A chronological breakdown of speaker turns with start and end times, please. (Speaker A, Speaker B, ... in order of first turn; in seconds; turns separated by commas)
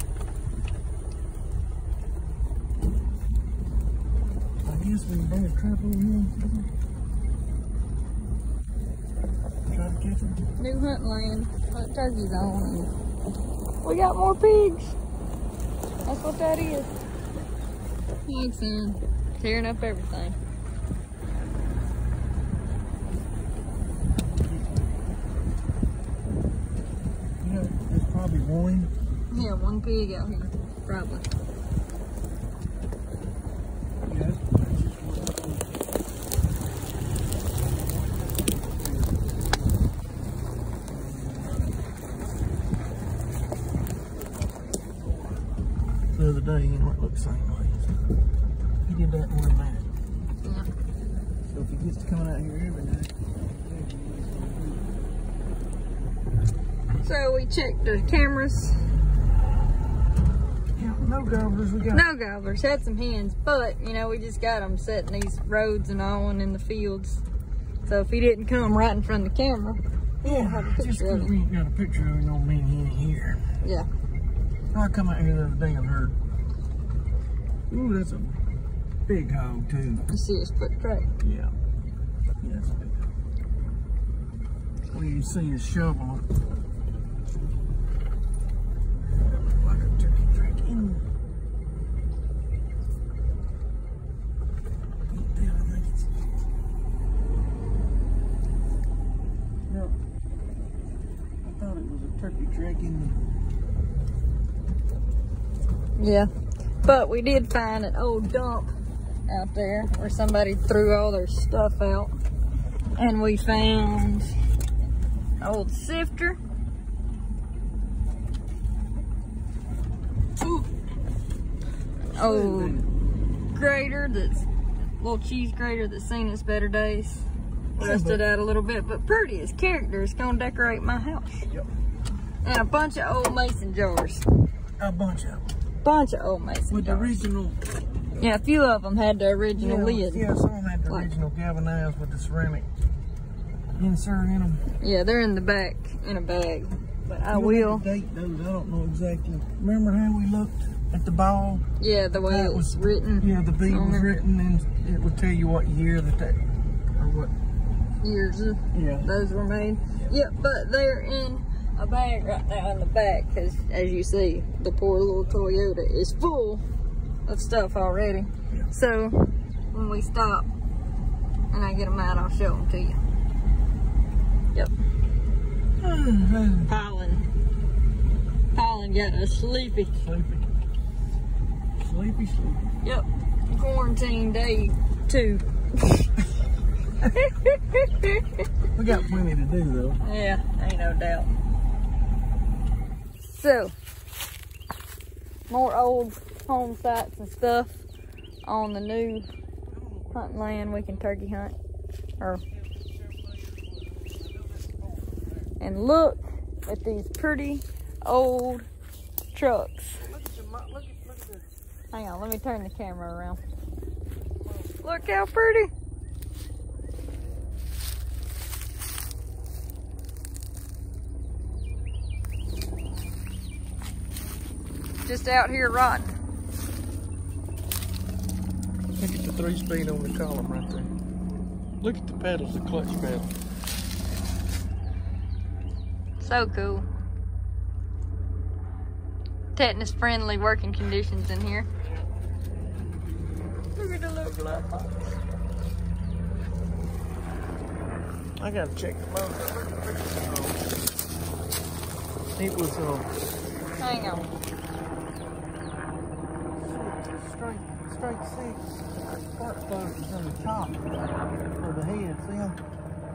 Speaker A: 4.6-6.7, Speaker A: 9.7-10.4, Speaker B: 10.6-12.9, Speaker B: 13.8-14.9, Speaker B: 16.0-16.9, Speaker B: 18.2-20.4, Speaker A: 24.2-24.9, Speaker A: 27.4-28.9, Speaker B: 29.3-31.3, Speaker A: 34.1-35.9, Speaker A: 37.7-39.9, Speaker A: 40.9-42.3, Speaker A: 44.1-47.9, Speaker A: 48.8-49.9, Speaker B: 50.4-50.7, Speaker A: 51.5-54.9, Speaker B: 57.0-58.9, Speaker A: 60.7-62.0, Speaker B: 61.9-67.2, Speaker B: 67.8-71.3, Speaker A: 70.2-73.5, Speaker B: 73.6-73.9, Speaker A: 74.7-76.2, Speaker A: 77.7-78.4, Speaker A: 79.1-80.1, Speaker B: 80.1-81.1, Speaker A: 81.2-81.5, Speaker A: 82.4-83.1, Speaker A: 84.9-86.3, Speaker A: 89.1-91.0, Speaker A: 95.1-96.1, Speaker A: 99.7-100.0, Speaker A: 101.4-103.2, Speaker B: 106.0-106.3, Speaker B: 106.8-108.7, Speaker B: 109.3-112.1, Speaker B: 113.0-114.3, Speaker B: 115.4-116.4, Speaker B: 122.1-122.8, Speaker A: 122.1-122.9, Speaker B: 123.5-124.5, Speaker B: 125.0-127.2, Speaker A: 127.8-128.2, Speaker B: 127.8-131.5, Speaker B: 132.4-134.2, Speaker A: 134.8-135.5, Speaker B: 135.8-137.2, Speaker A: 136.7-137.6, Speaker B: 138.2-140.3, Speaker A: 139.6-142.7, Speaker A: 143.8-144.7, Speaker B: 144.8-147.8, Speaker A: 147.3-156.4, Speaker B: 151.8-154.1, Speaker A: 156.9-157.3, Speaker B: 158.0-166.6, Speaker A: 158.7-159.1, Speaker B: 167.2-170.5, Speaker B: 171.5-173.0, Speaker A: 175.8-176.7, Speaker B: 176.7-177.3, Speaker B: 178.5-180.0, Speaker A: 180.0-180.5, Speaker A: 181.8-182.7, Speaker B: 182.8-185.4, Speaker B: 187.0-188.5, Speaker A: 188.8-190.0, Speaker B: 190.0-191.3, Speaker B: 193.2-193.7, Speaker B: 195.5-197.8, Speaker B: 198.4-199.3, Speaker A: 199.7-201.1, Speaker B: 200.1-201.6, Speaker A: 202.5-205.5, Speaker B: 205.6-208.7, Speaker B: 209.3-210.0, Speaker A: 210.1-211.5, Speaker B: 211.9-213.4, Speaker A: 214.2-215.1, Speaker B: 214.8-215.7, Speaker B: 225.0-226.2, Speaker A: 229.0-230.9, Speaker A: 231.8-233.3, Speaker B: 236.2-236.9, Speaker B: 239.6-241.7, Speaker A: 241.8-242.1, Speaker B: 243.8-245.1, Speaker A: 248.4-250.7, Speaker A: 252.4-253.1, Speaker B: 253.8-254.3, Speaker A: 256.6-260.9, Speaker A: 261.6-262.6